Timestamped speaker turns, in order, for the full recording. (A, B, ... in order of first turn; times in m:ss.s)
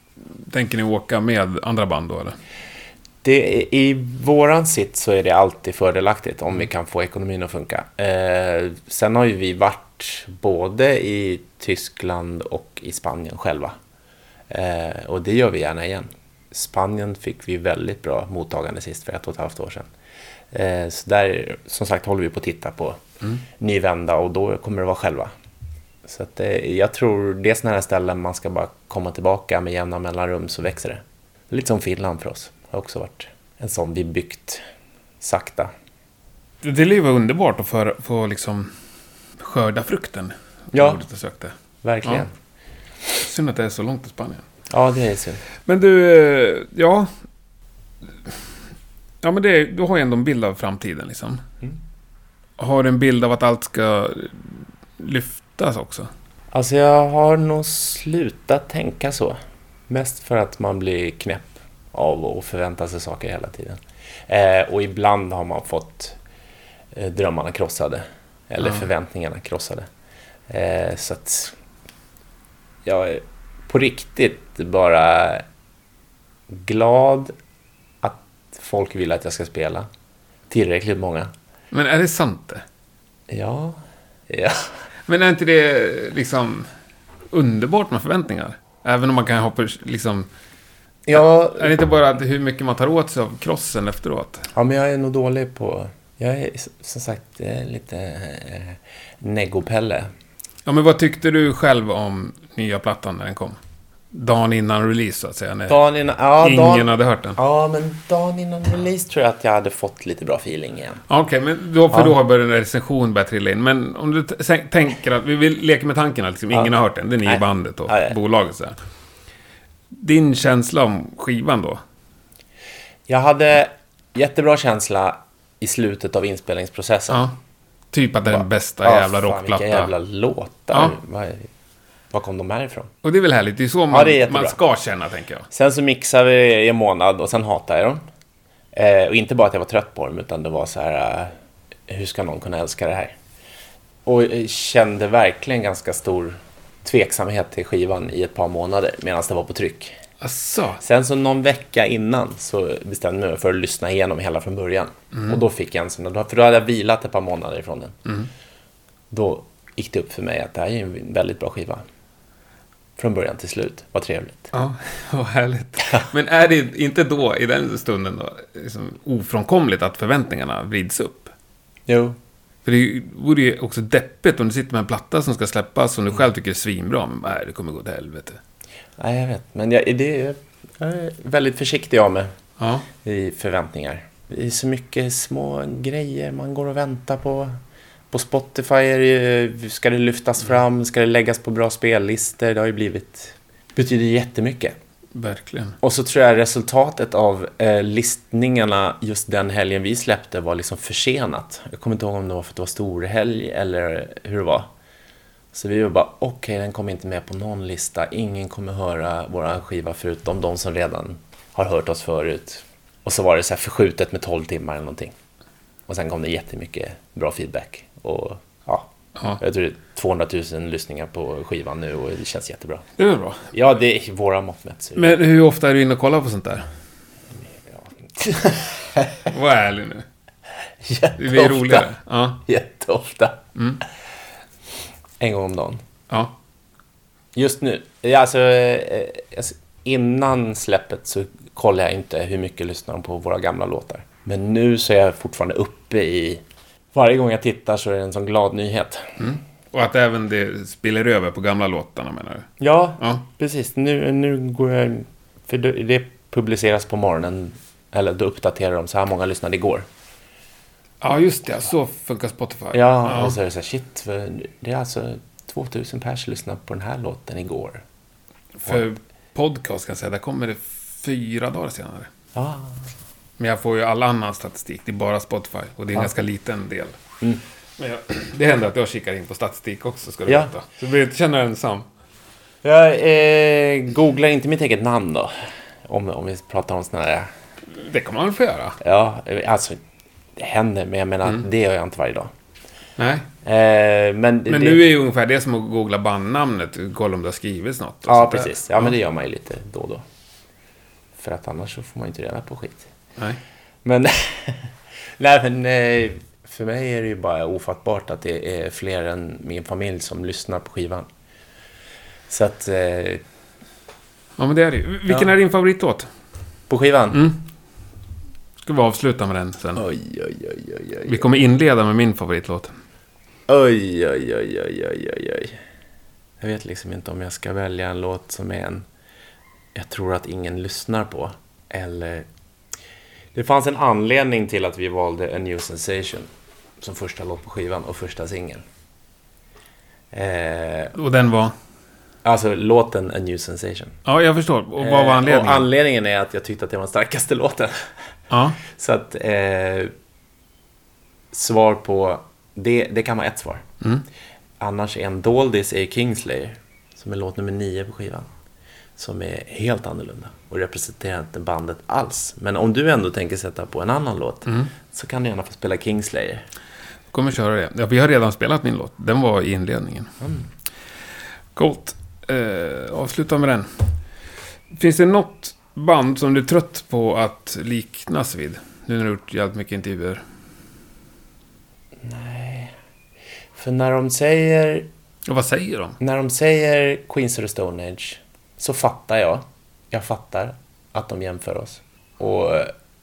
0:00.2-0:02.4 A
0:03.2-0:13.8 B
0:14.5-0:19.9 B
0:20.5-0:23.0 B
0:23.6-0:25.3 B
0:26.0-0:34.6 B
0:35.2-0:35.7 B
0:36.6-0:38.7 A
0:39.4-0:42.2 A
0:40.7-0:41.0 B
0:41.8-0:42.3 B
0:43.2-0:44.4 A
0:44.7-0:45.4 B
0:45.6-0:47.1 A
0:49.2-0:51.4 A
0:52.6-0:56.1 A
0:56.5-0:59.4 B
0:59.9-1:06.2 B
1:06.9-1:09.9 B
1:10.5-1:11.5 B
1:12.8-1:15.4 B
1:16.5-1:17.3 B
1:18.0-1:19.9 B
1:20.5-1:21.3 B
1:21.7-1:22.6 A
1:23.3-1:24.6 B
1:25.1-1:26.7 A
1:27.3-1:30.3 A
1:31.1-1:31.7 B
1:31.1-1:34.5 A
1:34.5-1:40.1 B
1:40.6-1:43.6 A
1:44.1-1:45.8 A
1:45.7-1:51.0 B
1:46.4-1:47.4 A
1:51.1-1:58.8 A
1:57.2-1:58.1 B
1:59.9-2:01.8 A
2:03.1-2:07.2 B
2:07.9-2:09.9 A
2:08.3-2:11.5 B
2:12.1-2:12.9 B
2:13.0-2:15.4 A
2:13.9-2:14.6 B
2:15.5-2:18.0 B
2:18.7-2:21.3 B
2:21.9-2:23.1 B
2:24.0-2:30.0 B
2:30.2-2:30.8 A
2:30.8-2:38.0 B
2:39.1-2:41.8 B
2:43.0-2:44.5 B
2:44.5-2:51.3 A
2:51.9-2:52.2 B
2:52.6-2:58.4 A
2:59.0-3:02.3 B
3:02.6-3:02.9 A
3:03.0-3:07.5 B
3:08.1-3:14.7 B
3:15.1-3:15.8 A
3:15.8-3:24.7 B
3:25.5-3:35.1 B
3:35.9-3:42.8 B
3:43.0-3:43.5 A
3:43.5-3:45.2 B
3:45.0-3:46.6 A
3:47.7-3:49.2 B
3:49.2-3:50.0 A
3:50.8-3:51.9 B
3:51.2-3:52.4 A
3:52.4-3:53.4 B
3:53.6-3:53.8 A
3:55.2-3:55.8 B
3:56.1-3:56.3 A
3:57.3-4:06.4 B
4:06.9-4:09.2 B
4:09.2-4:13.2 A
4:12.6-4:19.8 B
4:21.0-4:23.4 A
4:22.7-4:27.8 B
4:28.6-4:32.1 A
4:32.3-4:32.8 B
4:33.4-4:37.0 A
4:37.8-4:41.9 A
4:42.6-4:45.3 B
4:45.8-4:47.3 B
4:47.7-4:48.8 A
4:48.8-4:49.8 B
4:50.4-4:52.3 B
4:53.0-4:53.3 A
4:53.4-4:54.8 B
4:54.5-4:58.9 A
4:58.1-5:00.0 B
5:01.2-5:02.9 B
5:03.8-5:11.1 B
5:12.3-5:13.2 B
5:14.4-5:16.1 A
5:16.7-5:17.2 B
5:17.1-5:17.4 A
5:18.6-5:19.8 A
5:19.8-5:21.2 B
5:21.0-5:22.7 A
5:23.5-5:25.6 B
5:26.4-5:28.8 B
5:29.7-5:32.2 B
5:33.3-5:36.3 B
5:36.8-5:38.6 B
5:40.1-5:40.9 B
5:40.9-5:41.5 A
5:42.2-5:44.0 B
5:44.0-5:45.7 A
5:44.8-5:47.8 B
5:48.3-5:48.6 A
5:48.6-5:49.9 B
5:51.3-5:53.6 B
5:54.6-5:58.3 B
5:59.0-6:06.4 B
6:07.1-6:10.1 A
6:11.5-6:13.8 A
6:14.7-6:20.2 A
6:22.0-6:22.7 B
6:23.5-6:24.9 B
6:25.3-6:26.0 A
6:26.0-6:32.7 B